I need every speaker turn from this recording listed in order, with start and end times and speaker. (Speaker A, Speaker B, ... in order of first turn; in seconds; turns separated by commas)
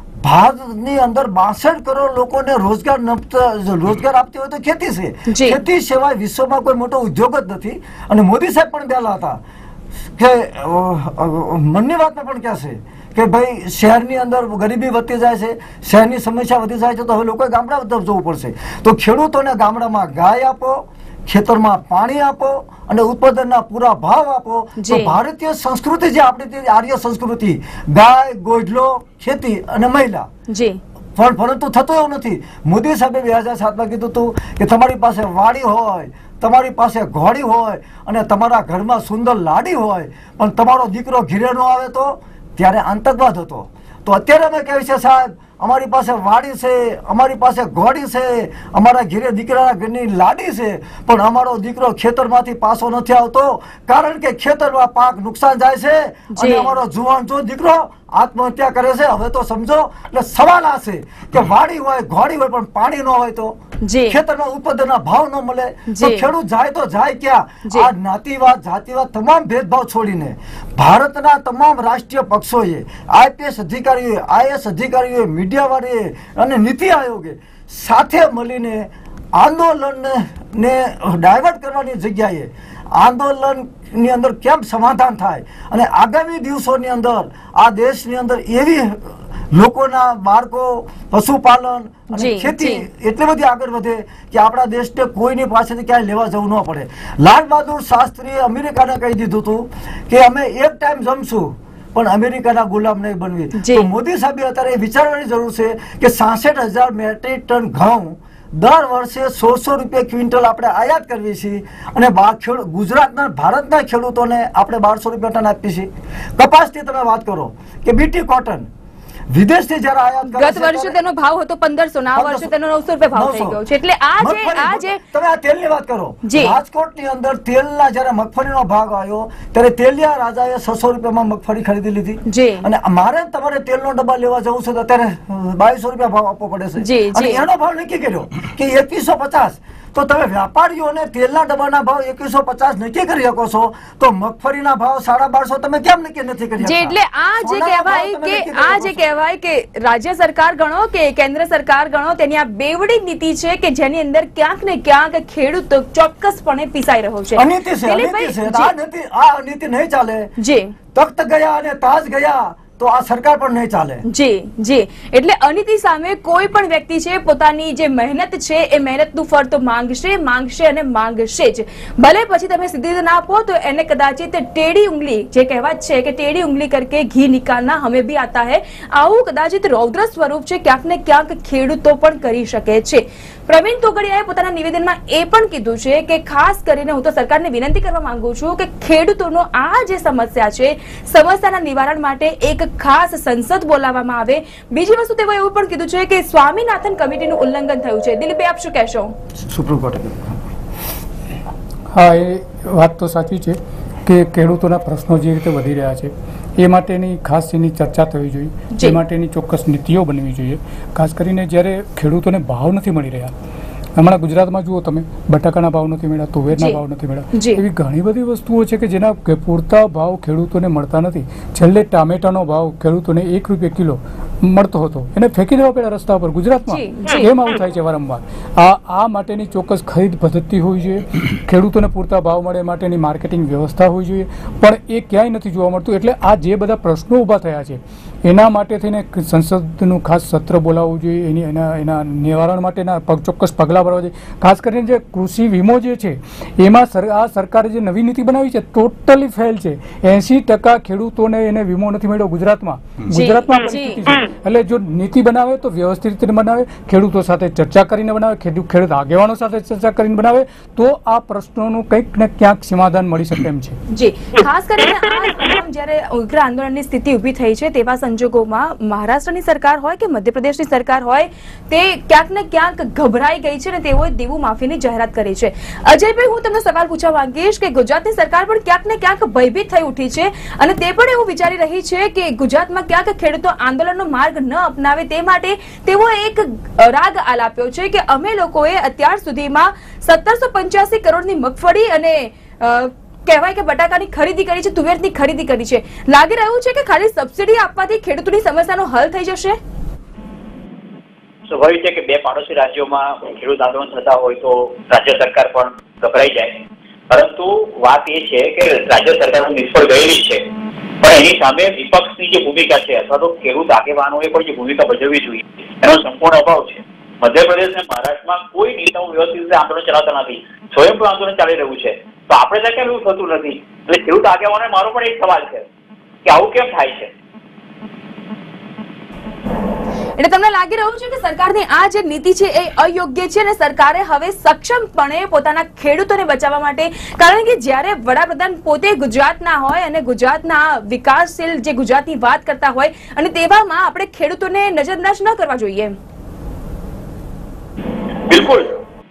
Speaker A: 0.2-9.4, Speaker B: 5.3-5.6, Speaker A: 10.2-30.3, Speaker B: 24.8-25.2, Speaker B: 30.5-30.8, Speaker A: 31.2-118.7, Speaker B: 56.3-56.7, Speaker B: 63.8-64.2, Speaker B: 65.9-66.3, Speaker B: 92.1-92.8, Speaker B: 103.6-103.9, Speaker A: 119.3-121.0, Speaker B: 120.3-125.0, Speaker A: 122.2-122.5, Speaker A: 123.1-123.6, Speaker A: 124.2-149.0, Speaker B: 126.2-126.6, Speaker B: 132.3-132.7, Speaker B: 136.8-137.4, Speaker B: 146.6-158.7, Speaker A: 157.3-160.3, Speaker B: 160.4-160.7, Speaker A: 160.9-164.0, Speaker B: 164.1-199.1, Speaker A: 199.4-200.4, Speaker C: 201.9-213.3, Speaker C: 214.0-263.8, Speaker B: 216.5-216.8, Speaker B: 217.3-217.6, Speaker B: 226.7-227.3, Speaker B: 253.1-254.0, Speaker B: 263.9-299.6, Speaker D: 301.5-310.5, Speaker D: 311.0-325.7, Speaker D: 326.2-327.1, Speaker B: 330.2-345.9, Speaker D: 348.3-348.8